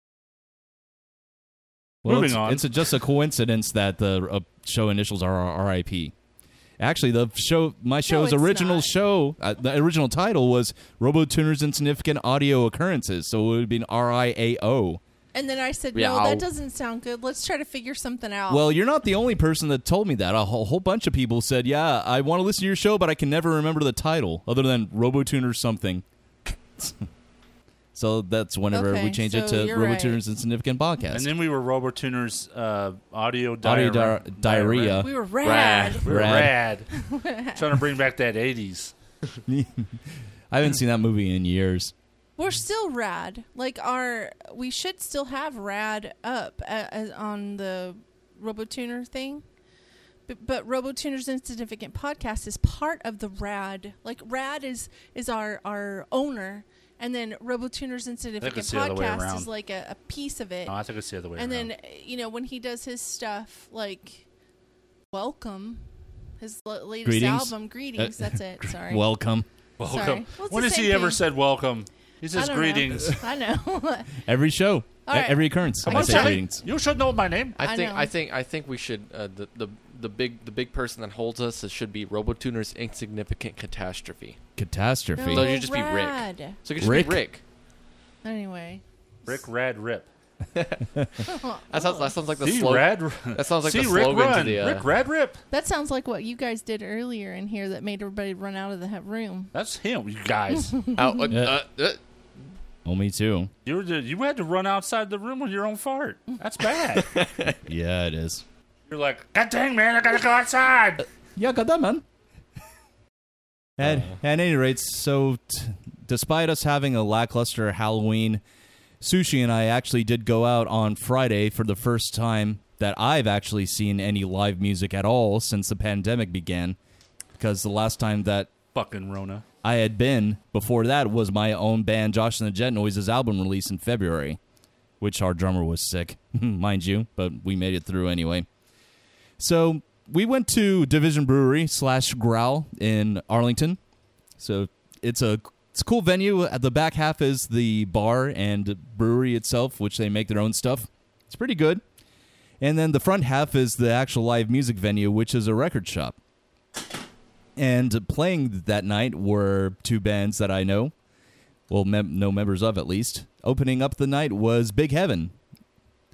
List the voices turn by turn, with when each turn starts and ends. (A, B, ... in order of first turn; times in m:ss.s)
0:02.0-0:02.7 A
0:02.0-0:06.1 B
0:06.8-0:15.0 B
0:08.1-0:08.9 C
0:15.3-0:18.7 C
0:15.9-0:16.4 D
0:18.5-0:26.0 B
0:26.8-0:27.0 B
0:27.9-0:31.3 B
0:28.7-0:30.2 C
0:31.1-0:35.1 A
0:33.6-0:35.1 B
0:35.0-0:36.0 C
0:35.4-0:36.1 D
0:36.0-0:36.9 A
0:36.0-0:36.6 B
0:36.9-0:37.6 C
0:37.6-0:38.9 A
0:39.5-0:41.9 B
0:42.4-0:49.4 C
0:50.3-1:00.7 C
0:58.4-0:59.5 A
1:00.7-1:01.7 A
1:01.4-1:04.3 C
1:05.1-1:05.8 C
1:06.4-1:09.1 C
1:07.0-1:09.5 B
1:09.8-1:13.2 A
1:09.8-1:11.2 C
1:12.3-1:14.1 C
1:14.2-1:16.6 B
1:15.1-1:16.4 C
1:15.8-1:17.6 A
1:17.6-1:24.4 D
1:17.6-1:18.1 C
1:24.6-1:25.5 B
1:25.2-1:26.6 C
1:25.3-1:27.4 D
1:26.8-1:27.2 B
1:28.2-1:28.8 C
1:29.3-1:30.1 A
1:30.6-1:30.8 D
1:31.2-1:32.1 C
1:31.7-1:34.9 D
1:32.4-1:35.4 A
1:35.5-1:39.5 C
1:39.5-1:40.8 A
1:40.7-1:41.3 C
1:41.0-1:42.0 D
1:41.3-1:41.6 B
1:42.8-1:43.5 B
1:43.6-1:47.2 A
1:46.9-1:47.6 D
1:47.7-1:48.4 B
1:48.9-1:51.0 A
1:51.4-1:52.0 B
1:53.8-1:58.4 B
1:53.8-1:54.2 D
1:59.0-2:06.8 B
2:07.4-2:08.5 B
2:08.7-2:09.4 A
2:09.6-2:14.4 B
2:15.0-2:18.5 B
2:19.4-2:23.8 B
2:24.4-2:31.8 B
2:32.6-2:36.2 B
2:37.6-2:40.9 B
2:41.7-2:45.4 B